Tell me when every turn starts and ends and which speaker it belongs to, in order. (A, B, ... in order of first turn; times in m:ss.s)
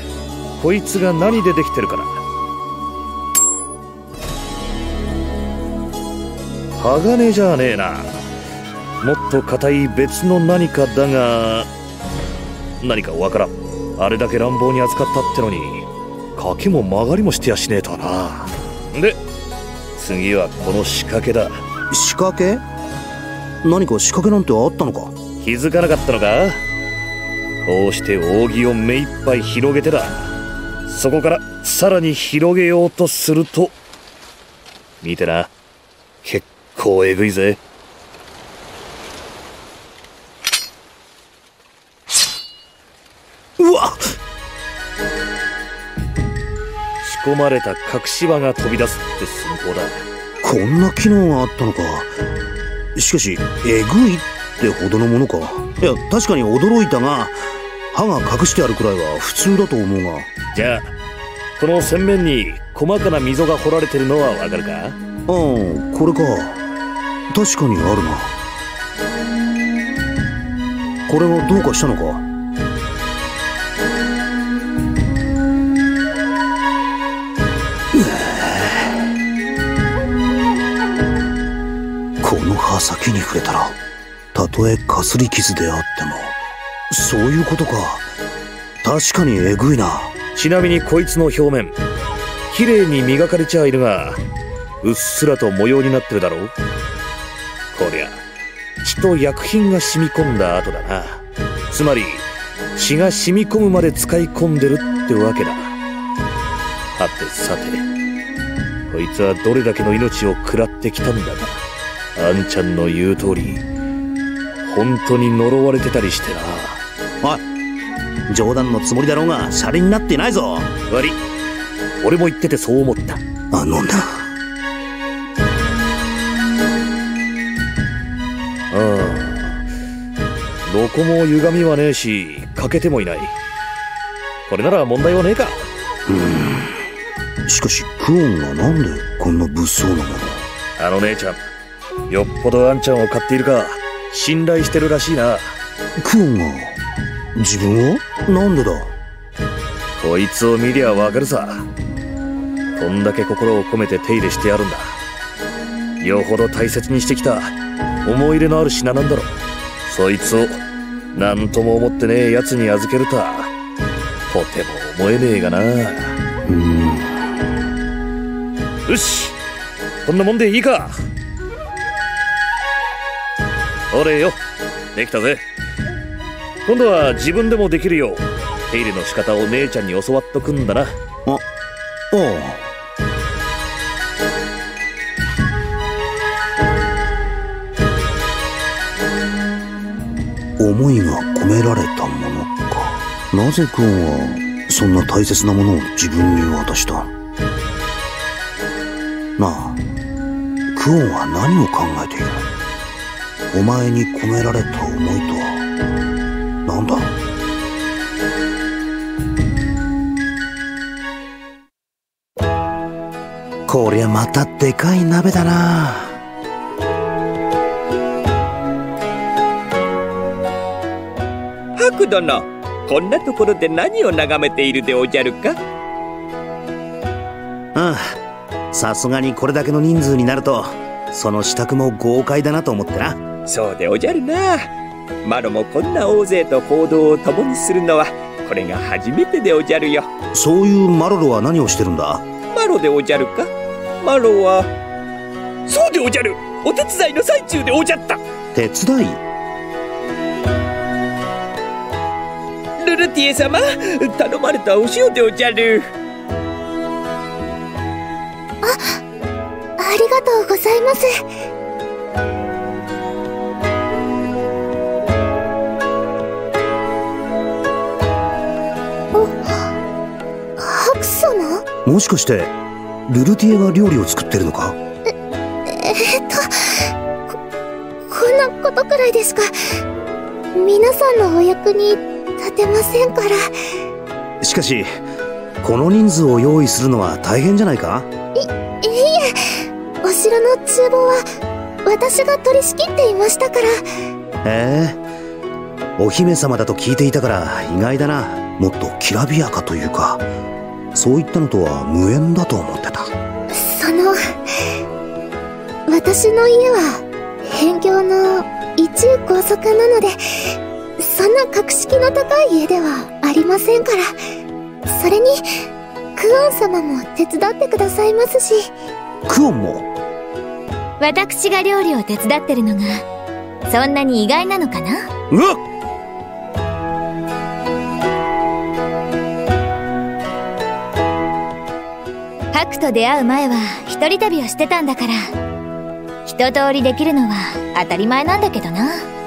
0:00.6-0:02.2 A
0:06.8-0:08.2 A
0:09.0-0:11.7 A
0:12.8-0:19.2 A
0:20.0-0:21.6 A
0:21.9-0:22.6 B
0:23.6-0:25.1 B
0:25.4-0:26.6 A
0:27.6-0:30.3 A
0:30.9-0:33.7 A
0:35.0-0:35.5 A
0:36.2-0:37.6 A
0:43.6-0:44.2 B
0:47.0-0:50.0 A
0:50.4-0:52.1 B
0:53.0-0:57.4 B
0:57.9-1:00.3 B
1:00.5-1:00.9 A
1:01.6-1:05.0 A
1:05.3-1:06.6 B
1:07.3-1:08.3 B
1:11.1-1:12.3 B
1:17.9-1:19.0 B
1:22.2-1:23.8 B
1:24.3-1:26.4 B
1:26.9-1:28.1 B
1:28.8-1:30.1 B
1:30.4-1:31.8 A
1:32.5-1:34.2 A
1:34.8-1:36.5 A
1:37.7-1:38.2 A
1:38.8-1:45.7 A
1:47.0-1:47.9 A
1:48.9-1:51.6 A
1:52.2-1:53.6 A
1:54.6-1:56.8 A
1:58.3-2:00.7 B
2:00.9-2:01.2 A
2:02.0-2:03.2 A
2:03.5-2:04.3 B
2:08.7-2:09.6 A
2:10.7-2:13.4 A
2:14.5-2:15.7 A
2:16.1-2:16.8 B
2:17.5-2:20.5 B
2:20.8-2:21.4 A
2:22.1-2:25.6 A
2:26.0-2:26.8 B
2:27.4-2:29.0 B
2:30.0-2:31.7 A
2:32.8-2:35.0 A
2:36.0-2:37.5 A
2:38.0-2:40.6 A
2:41.1-2:43.5 A
2:44.3-2:46.2 A
2:46.5-2:47.4 B
2:48.9-2:49.4 A
2:50.0-2:51.0 A
2:53.9-2:54.4 A
2:55.0-2:55.4 A
2:56.7-3:01.0 A
3:02.1-3:02.7 B
3:10.6-3:17.1 B
3:19.4-3:19.8 B
3:20.7-3:22.5 B
3:23.5-3:25.7 B
3:26.7-3:27.1 B
3:33.7-3:36.2 B
3:41.8-3:45.6 C
3:47.8-3:48.2 B
3:48.7-3:53.2 B
3:53.5-3:54.7 C
3:55.2-4:00.1 C
4:00.3-4:02.2 B
4:02.5-4:03.5 C
4:04.0-4:04.7 C
4:05.7-4:08.2 C
4:08.5-4:09.2 B
4:12.8-4:15.9 C
4:18.6-4:19.0 D
4:19.8-4:21.1 D
4:29.1-4:29.7 D
4:30.6-4:31.6 D
4:31.8-4:32.5 B
4:33.1-4:34.8 B
4:35.7-4:37.4 D
4:38.1-4:39.8 D
4:40.6-4:43.5 D
4:44.4-4:44.9 B
4:45.6-4:48.1 B
4:48.4-4:51.2 D
4:51.8-4:53.7 D
4:54.4-4:55.0 B
4:56.0-5:00.2 B
5:00.9-5:03.1 B
5:03.5-5:04.2 D
5:05.9-5:14.1 D
5:14.9-5:15.5 D
5:16.2-5:18.7 D
5:19.3-5:19.9 B
5:21.0-5:23.0 E
5:23.7-5:25.0 E
5:25.3-5:25.6 B
5:32.5-5:35.2 E
5:36.2-5:39.1 E